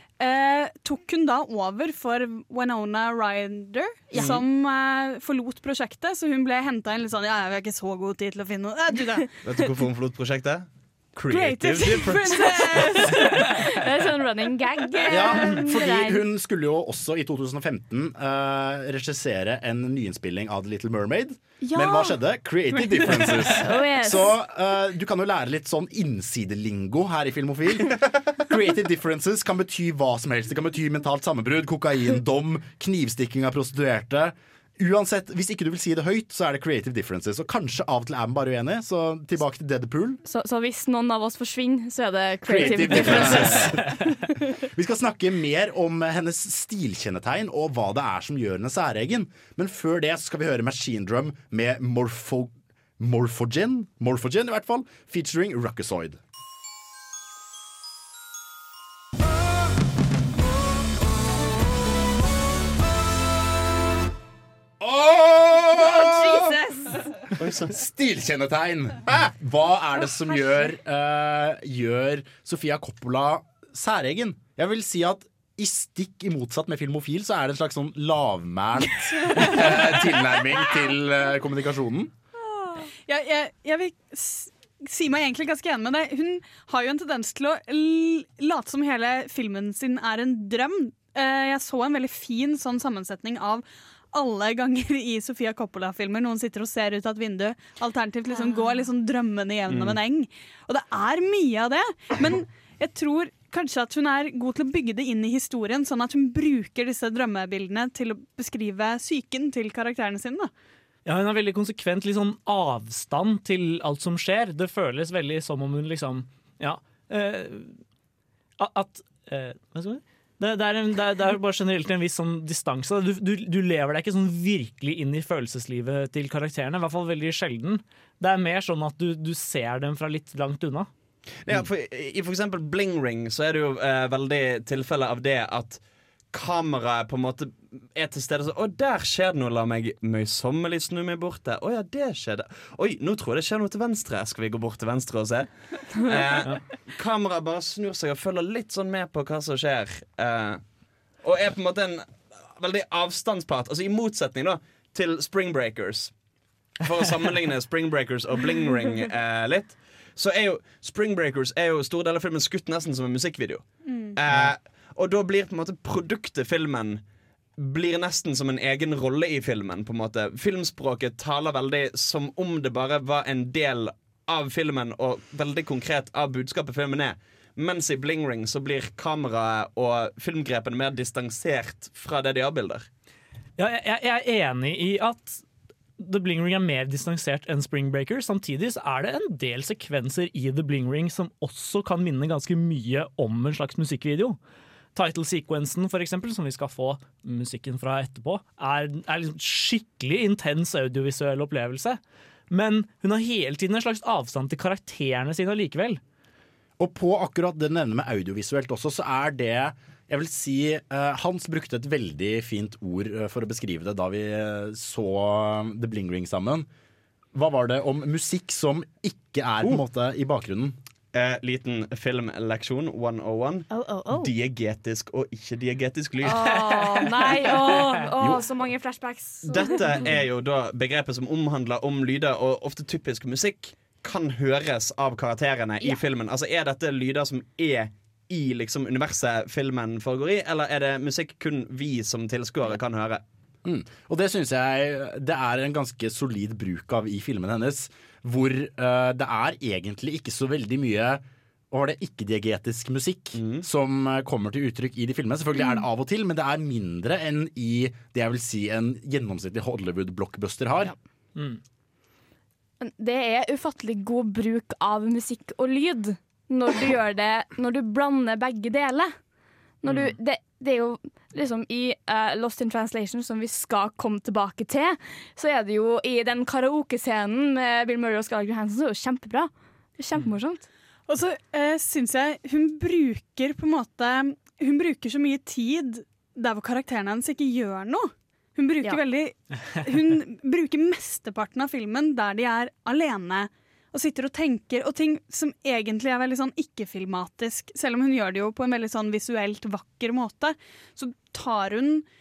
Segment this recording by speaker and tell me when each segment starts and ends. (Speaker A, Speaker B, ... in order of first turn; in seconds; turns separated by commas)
Speaker A: 0.2-9.3, Speaker B: 4.1-4.4, Speaker B: 9.4-13.2, Speaker A: 11.3-13.4, Speaker C: 12.1-16.2, Speaker D: 15.1-40.2, Speaker C: 21.6-22.2, Speaker C: 22.9-24.4, Speaker C: 40.2-44.4, Speaker D: 42.4-43.9, Speaker B: 43.0-43.5, Speaker D: 44.7-56.2, Speaker D: 64.8-66.6, Speaker C: 65.8-67.0, Speaker B: 67.4-67.7, Speaker D: 67.6-82.1, Speaker A: 82.6-110.5, Speaker C: 98.3-98.8, Speaker B: 99.7-100.0, Speaker E: 111.0-117.8, Speaker E: 118.6-130.9, Speaker B: 131.4-135.8, Speaker B: 136.3-150.6, Speaker B: 151.2-156.1, Speaker B: 156.8-167.0, Speaker A: 163.8-164.2, Speaker B: 167.6-182.9, Speaker E: 183.6-185.4, Speaker E: 186.0-194.4, Speaker E: 194.9-202.0, Speaker E: 202.5-206.0, Speaker D: 206.8-216.7, Speaker D: 217.3-220.8, Speaker B: 221.1-226.7, Speaker C: 223.7-224.3, Speaker C: 226.2-230.1, Speaker B: 229.4-243.2, Speaker D: 243.6-260.9, Speaker B: 253.3-253.6, Speaker E: 261.3-261.6, Speaker C: 262.8-269.1, Speaker C: 269.8-280.6, Speaker A: 281.1-302.0